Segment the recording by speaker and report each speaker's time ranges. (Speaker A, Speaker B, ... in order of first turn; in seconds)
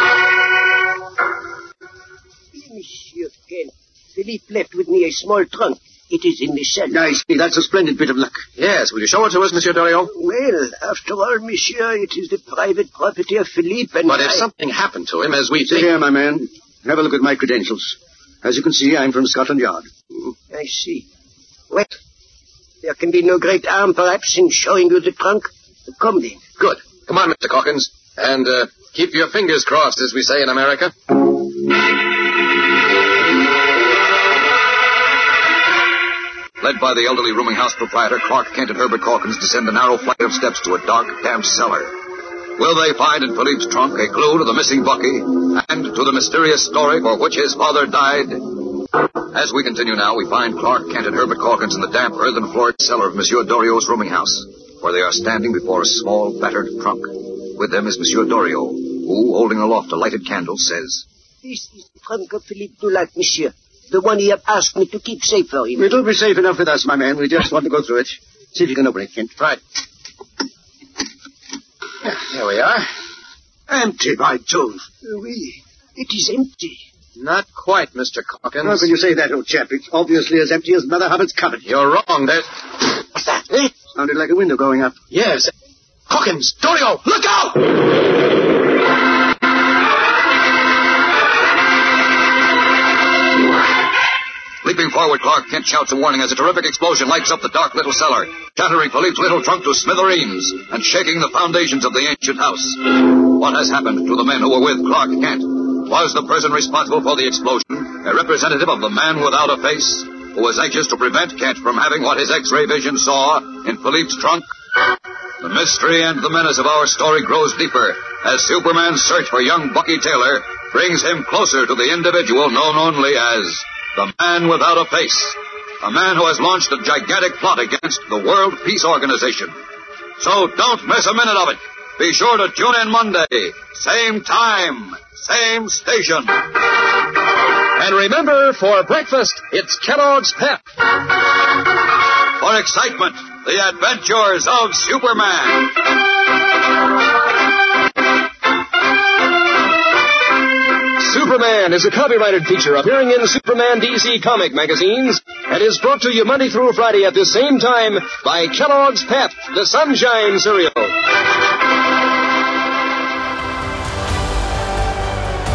Speaker A: 2.5-7.0, 10.1-14.4, 20.5-21.1, 22.8-26.4, 61.4-65.9, 75.1-75.4, 76.0-76.8
Speaker B: 6.9-8.4, 15.7-19.9, 65.8-69.3, 73.7-75.5, 78.6-81.7, 83.8-85.0
Speaker C: 8.6-10.1, 14.1-15.9, 26.6-30.9, 72.0-72.9, 77.2-78.9, 81.7-82.5, 85.1-85.5, 86.1-87.7
Speaker D: 36.6-42.0, 42.6-61.0, 94.6-114.5, 115.4-129.6, 130.2-136.4, 142.4-145.7
Speaker E: 137.8-140.6, 151.0-160.9